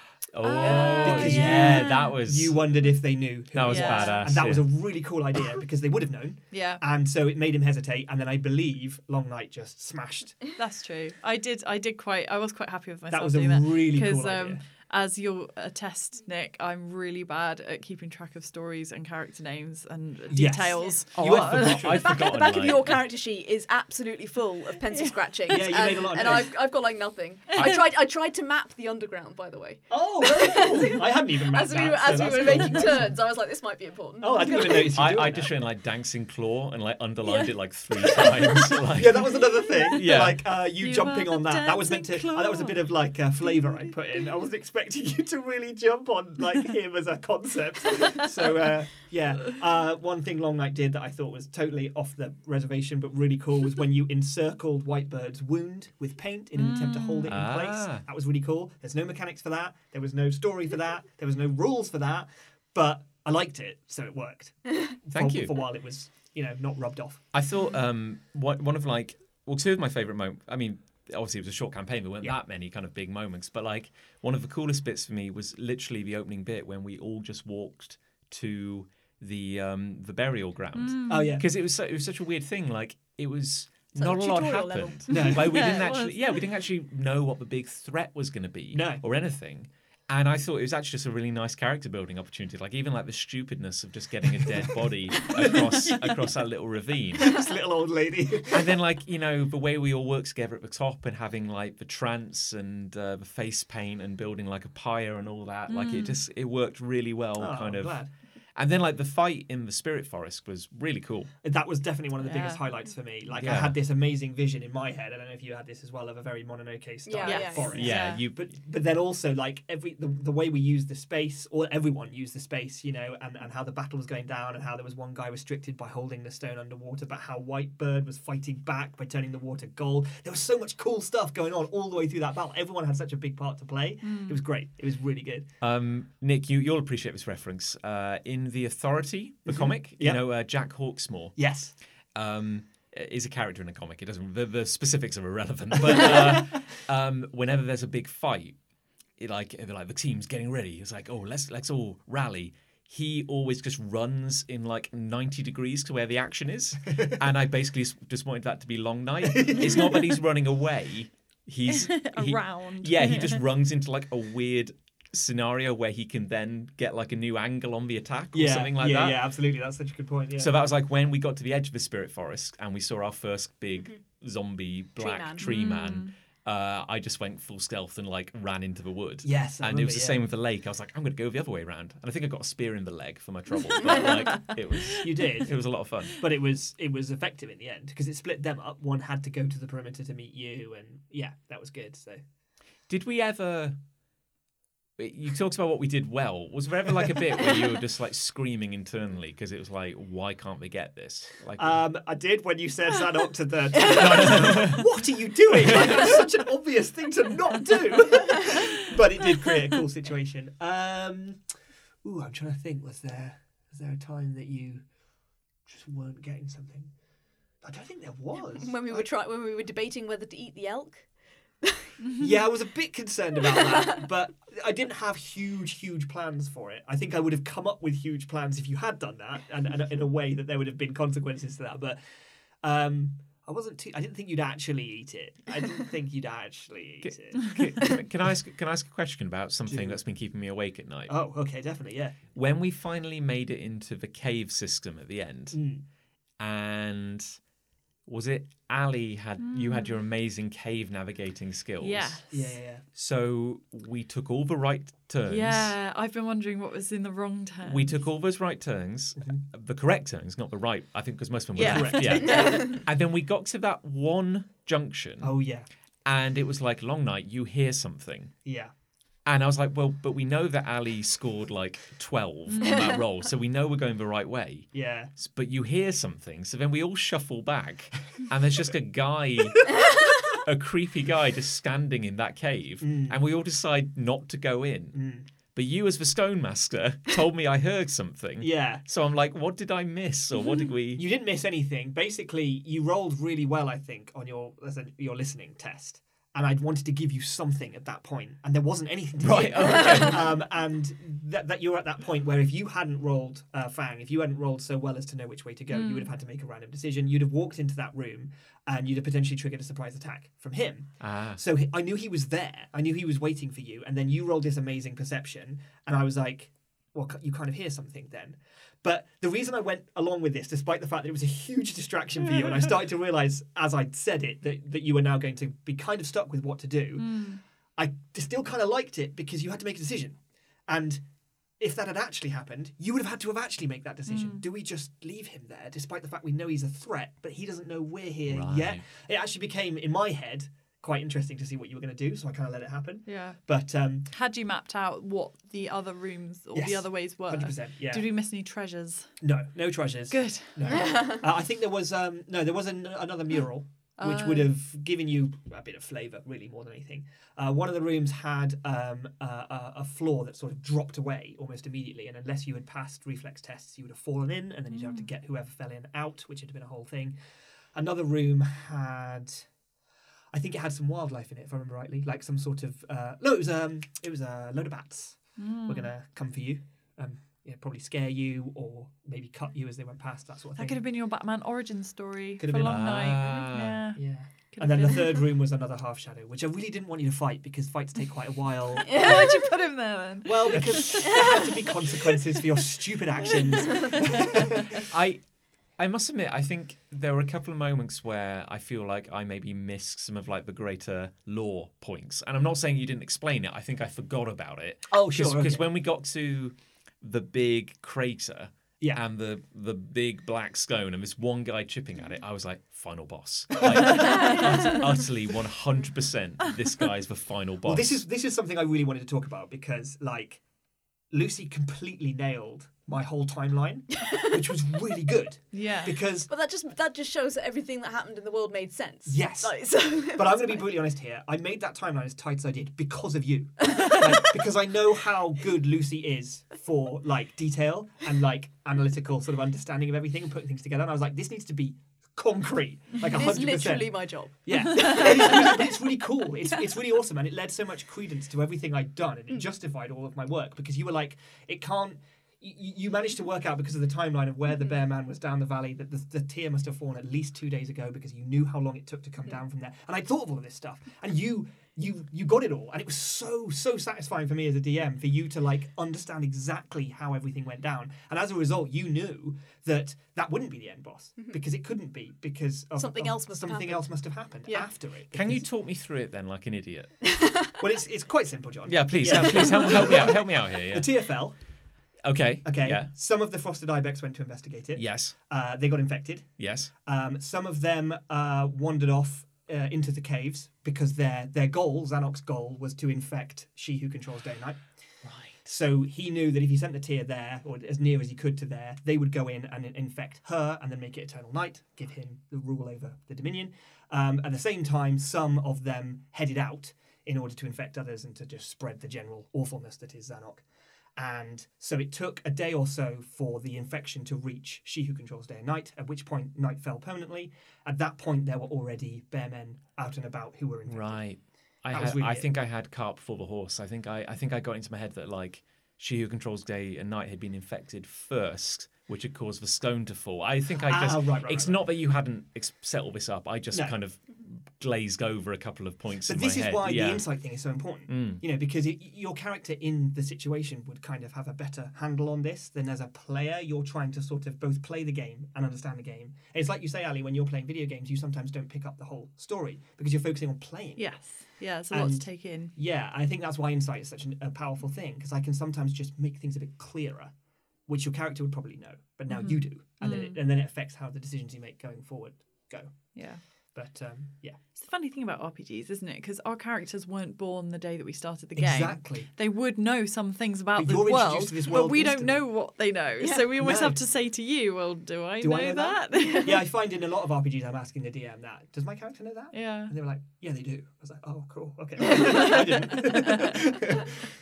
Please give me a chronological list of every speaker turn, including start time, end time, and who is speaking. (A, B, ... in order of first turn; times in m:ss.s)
0:00.3-0:02.6 A
0:00.4-0:02.2 B
0:00.6-0:10.4 C
0:03.5-0:04.7 A
0:03.7-0:04.3 B
0:06.5-0:06.8 B
0:10.6-0:22.0 B
0:13.1-0:14.6 C
0:20.3-0:22.2 C
0:21.2-0:23.0 A
0:21.9-0:35.0 D
0:25.5-0:26.5 C
0:29.9-0:33.2 C
0:34.2-0:35.6 C
0:34.9-0:40.5 A
0:37.3-0:38.8 D
0:38.9-1:07.2 C
0:40.8-0:42.8 B
0:56.6-0:57.4 B
0:57.3-0:58.0 A
1:05.1-1:05.6 A
1:07.3-1:37.4 A
1:20.8-1:21.4 B
1:21.1-1:21.5 C
1:24.0-1:25.3 D
1:25.1-1:25.8 C
1:25.2-1:26.4 B
1:28.7-1:29.0 C
1:34.5-1:35.9 C
1:37.2-1:38.8 C
1:38.5-1:48.0 A
1:45.7-1:46.2 B
1:47.4-1:48.1 C
1:48.6-1:51.3 A
1:51.4-2:15.5 C
1:52.2-1:52.6 B
1:53.3-1:53.8 A
1:57.1-1:57.9 D
1:57.2-1:58.2 B
1:57.7-1:58.5 A
2:14.0-2:14.4 B
2:15.6-2:21.4 A
2:19.5-2:20.2 C
2:21.4-2:21.7 C
2:22.2-2:28.6 A
2:29.2-2:49.2 A
2:39.3-2:40.1 C
2:41.7-2:43.4 B
2:48.3-2:50.5 C
2:50.4-3:06.2 A
2:55.0-2:55.4 D
2:55.4-2:56.1 B
2:59.2-3:00.2 C
3:05.0-3:12.2 C
3:12.9-3:13.8 A
3:15.0-3:21.8 A
3:21.6-3:31.4 C
3:23.8-3:24.9 A
3:23.8-3:24.6 D
3:32.0-3:34.8 C
3:35.7-3:36.9 C
3:37.6-3:39.1 C
3:38.4-3:41.1 D
3:41.6-3:41.9 D
3:42.2-3:52.0 C
3:43.6-3:44.0 D
3:52.6-3:57.9 C
3:57.0-4:01.2 A
3:59.7-4:00.0 C
4:01.1-4:02.2 C
4:02.4-4:05.6 A
4:05.5-4:05.8 C
4:06.4-4:07.4 A
4:08.1-4:12.2 A
4:09.4-4:10.0 B
4:11.8-4:12.6 B
4:12.3-4:12.8 C
4:13.0-4:15.7 A
4:15.3-4:18.0 B
4:17.6-4:25.4 A
4:21.6-4:22.7 B
4:21.6-4:22.8 C
4:22.2-4:22.7 D
4:25.2-4:25.7 C
4:26.0-4:28.3 A
4:28.4-4:28.7 C
4:29.3-4:45.0 A
4:32.5-4:33.0 B
4:34.7-4:35.1 C
4:42.8-4:43.2 C
4:44.9-4:45.3 C
4:45.5-4:51.0 A
4:48.4-4:48.8 C
4:51.0-5:31.0 C
4:59.2-5:00.3 A
5:05.7-5:06.1 B
5:11.0-5:11.4 A
5:27.0-5:27.4 B
5:31.6-5:44.1 C
5:34.1-5:34.4 B
5:38.3-5:38.8 A
5:43.1-5:43.4 B
5:44.1-5:49.1 B
5:46.5-5:48.0 C
5:49.2-6:07.2 C
5:50.1-5:50.8 B
5:50.9-5:51.2 D
5:54.0-5:54.5 B
6:04.7-6:05.1 B
6:07.8-6:09.5 C
6:10.3-6:20.8 C
6:15.4-6:15.9 B
6:20.6-6:25.2 B
6:22.4-6:23.2 C
6:22.6-6:23.8 A
6:24.0-6:29.2 C
6:28.8-6:31.4 B
6:28.9-6:29.5 D
6:30.2-6:34.8 C
6:31.1-6:31.4 D
6:34.8-6:35.2 A
6:35.8-6:58.0 A
6:44.9-6:45.6 C
6:53.6-6:54.6 C
6:54.0-6:54.5 D
6:57.6-7:00.4 C
7:01.1-7:06.3 C
7:04.0-7:04.4 D
7:05.5-7:06.0 B
7:06.3-7:10.8 D
7:09.1-7:55.4 C
7:13.8-7:14.1 D
7:23.0-7:25.8 D
7:52.8-7:53.9 D
7:55.1-7:57.0 A
7:57.1-7:57.6 D
7:57.6-8:01.4 C
7:58.7-8:01.0 A
7:59.2-7:59.9 D
8:02.0-8:02.9 A
8:02.4-8:14.6 C
8:04.8-8:05.2 A
8:06.4-8:06.7 A
8:15.0-8:15.4 A
8:15.4-8:30.4 C
8:31.0-8:41.2 C
8:40.7-8:57.1 A
8:41.7-8:42.3 C
8:50.6-8:51.6 C
8:56.1-9:10.9 C
8:57.9-8:58.2 A
9:10.8-9:12.5 B
9:11.7-9:17.1 C
9:17.7-9:22.9 C
9:19.1-9:20.2 B
9:22.9-9:23.2 B
9:23.6-9:24.4 C
9:24.6-9:36.4 B
9:28.4-9:29.1 C
9:30.6-9:32.2 C
9:33.0-9:33.3 D
9:33.4-9:33.8 C
9:35.2-9:44.0 C
9:39.3-9:39.7 B